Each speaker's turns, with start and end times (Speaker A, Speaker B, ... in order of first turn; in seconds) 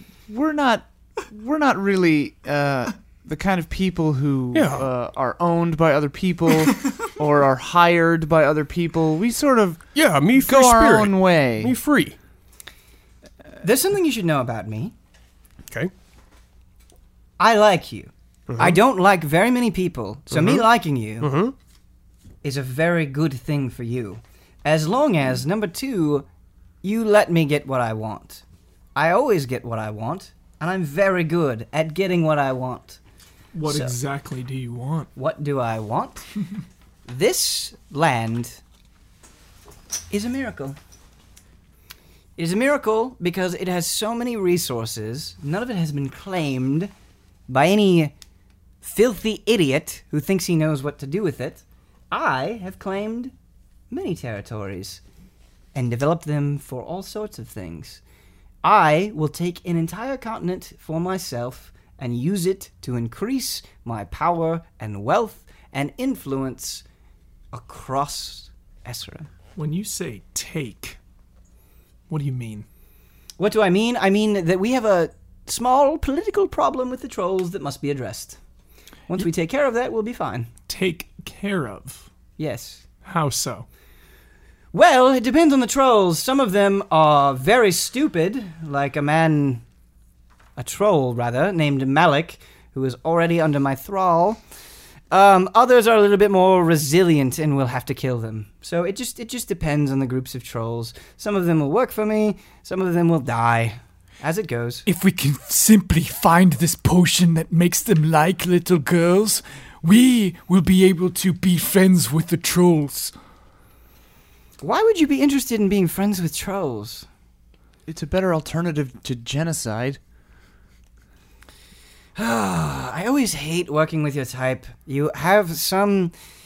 Speaker A: 0.3-9.8, 10.4-11.7, 117.9-120.0
Speaker B: 4.5-4.9, 9.9-12.2, 18.5-18.8, 20.3-20.7, 21.2-21.5
Speaker C: 13.6-14.9, 17.4-21.3, 22.4-26.3, 26.8-28.4, 28.9-33.0, 33.7-33.9, 35.1-36.2, 37.1-38.6, 40.1-40.8, 42.4-46.9, 47.5-48.1, 48.8-53.3, 53.9-55.0, 55.7-58.0, 58.6-66.8, 67.5-69.3, 73.4-78.4, 79.1-80.5, 82.4-82.8, 84.7-89.6, 90.5-94.4, 95.1-104.8, 114.6-117.1, 122.1-126.1
Speaker D: 33.5-35.1, 69.5-71.0, 72.1-72.7, 80.7-82.1, 83.0-83.7
Speaker E: 104.8-113.1